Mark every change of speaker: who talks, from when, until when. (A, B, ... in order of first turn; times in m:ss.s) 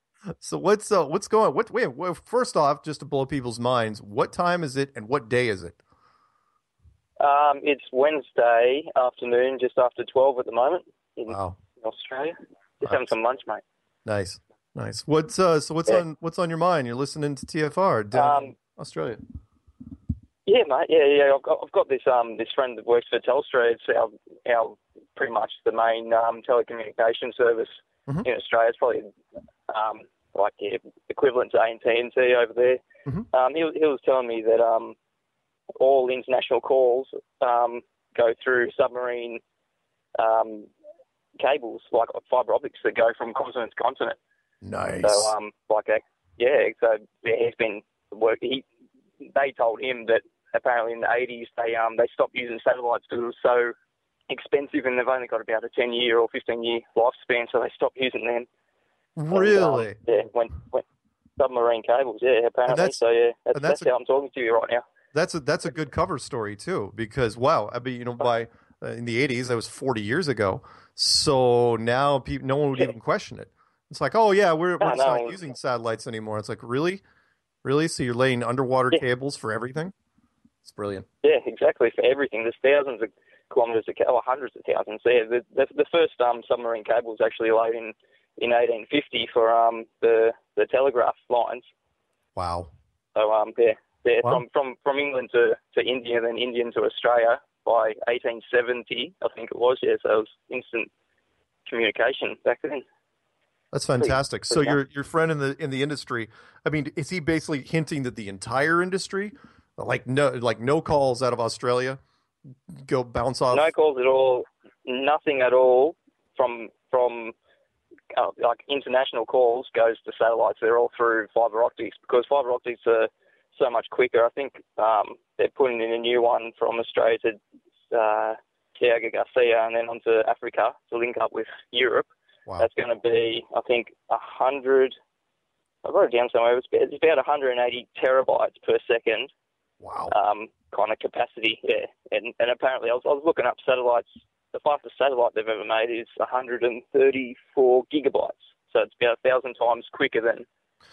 0:00.4-0:05.8 A
0:07.2-0:13.6 B
0:11.3-0:11.6 A
0:14.0-0:19.2 A
0:18.1-0:18.5 B
0:20.5-0:29.1 B
0:29.7-0:32.8 B
0:33.3-0:35.0 B
0:35.8-0:39.4 B
0:40.2-0:40.7 B
0:41.4-0:44.2 B
0:44.6-0:45.3 A
0:45.0-0:48.6 B
0:49.2-0:53.7 B
0:54.3-0:58.5 B
0:59.2-1:00.0 A
0:59.3-1:00.8 B
1:01.4-1:04.8 B
1:02.7-1:03.0 A
1:03.5-1:03.9 A
1:05.1-1:17.0 A
1:14.8-1:15.4 B
1:17.6-1:19.9 A
1:20.6-1:21.1 A
1:21.2-1:31.7 B
1:32.4-1:32.7 A
1:33.1-1:40.9 B
1:41.7-1:42.8 B
1:43.7-1:52.0 A
1:44.0-1:44.8 B
1:52.7-1:53.7 A
1:53.5-1:57.3 B
1:58.1-2:07.4 B
2:07.9-2:15.0 B
2:15.8-2:19.3 B
2:19.8-2:20.1 A
2:20.1-2:30.5 B